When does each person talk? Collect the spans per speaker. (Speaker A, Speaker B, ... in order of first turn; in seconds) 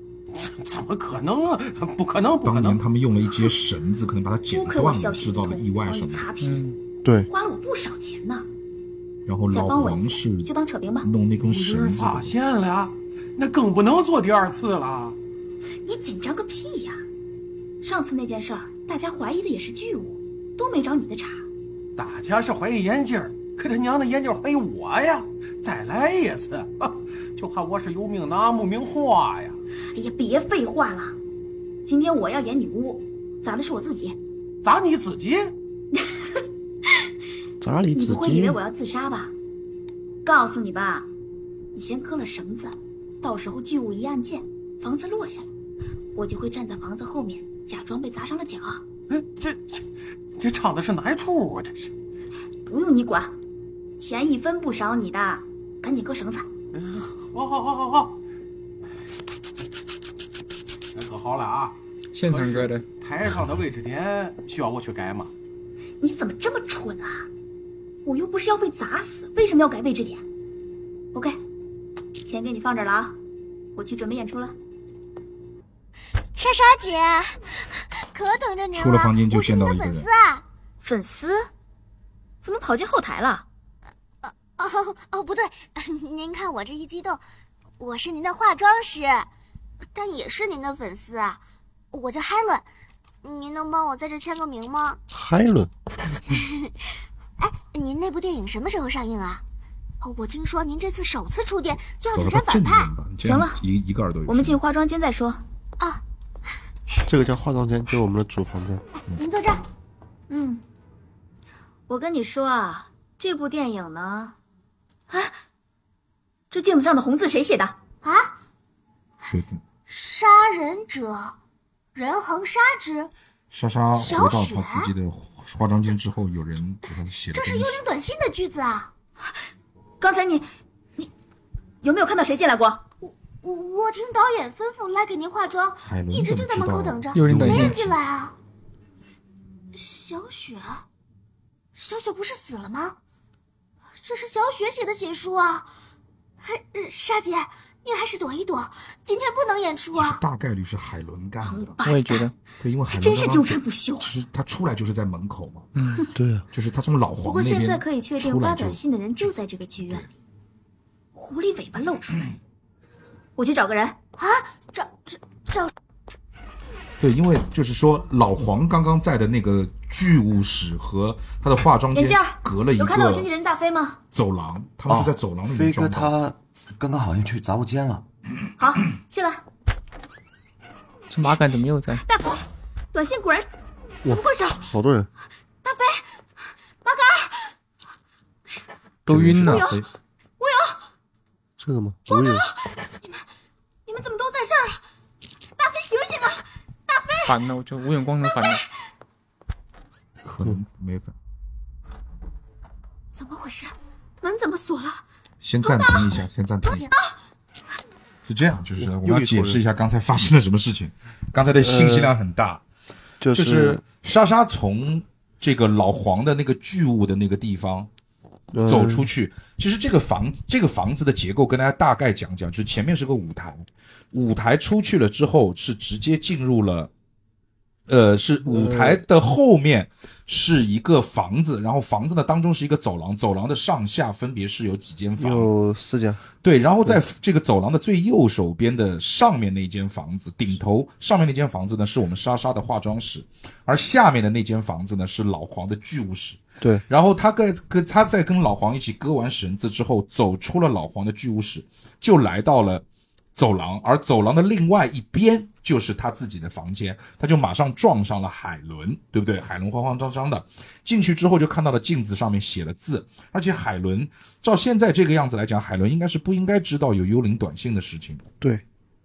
Speaker A: 0.3-2.8, 11.4-15.2, 21.9-29.6, 34.6-35.5, 49.1-49.8, 50.4-51.9, 56.7-58.2, 60.9-61.7, 62.3-65.3
Speaker B: 2.4-6.3, 9.2-10.5, 11.0-12.3, 78.7-80.1, 102.1-104.6, 119.3-119.6, 123.5-127.8, 135.8-138.0, 149.9-151.8, 152.6-155.7, 156.5-158.8, 167.0-173.3, 174.1-176.2, 189.1-189.8, 200.2-201.1, 205.4-206.9, 208.2-212.6, 213.3-217.9, 218.7-226.9, 227.9-235.5, 236.4-252.8, 253.3-268.2
Speaker C: 4.5-6.7, 7.3-8.4, 9.5-11.1, 15.8-17.0, 17.8-21.4, 29.9-31.1, 31.8-34.2, 37.9-39.3, 40.2-41.1, 41.7-45.5, 46.1-48.8, 52.6-53.3, 54.0-56.5, 66.0-67.2, 68.0-70.2, 72.2-73.2, 73.8-74.5, 80.8-81.5, 82.4-83.4, 103.2-103.6, 104.3-105.4, 110.3-110.6, 111.9-114.3, 115.1-115.3, 116.5-117.8, 130.0-131.1, 131.8-132.8, 151.4-152.2, 152.9-154.1, 157.2-160.1, 161.1-162.3, 163.4-164.0, 171.9-174.0, 178.6-179.4, 182.0-183.5, 184.0-184.6, 185.6-186.1, 186.8-187.5, 189.4-189.8, 190.4-190.8, 192.1-193.2, 193.8-194.8, 195.6-197.3, 198.4-198.6, 203.1-205.0, 205.6-206.1, 206.9-207.1
Speaker D: 6.4-6.7, 62.1-62.8, 137.1-137.8, 151.8-152.3, 155.8-156.0, 181.1-182.0, 189.1-189.8, 197.2-198.6
Speaker E: 37.6-38.6, 95.1-95.7, 107.1-108.8, 156.1-156.4, 184.0-185.1, 191.6-192.4, 208.8-209.6, 211.6-212.1, 213.2-213.8, 218.5-219.1, 228.4-229.0, 235.2-236.2
Speaker F: 76.4-80.4, 84.2-87.2, 87.8-89.3, 89.9-91.4, 91.9-92.7, 93.2-95.0, 96.3-96.7, 97.4-99.4, 100.0-102.9, 109.2-109.6, 118.0-118.3, 119.9-121.4, 121.9-123.1, 123.9-124.9, 127.3-128.9, 133.0-138.3, 139.7-140.8, 141.7-143.0, 144.0-145.7, 146.4-150.2, 164.2-165.7
Speaker G: 174.9-178.0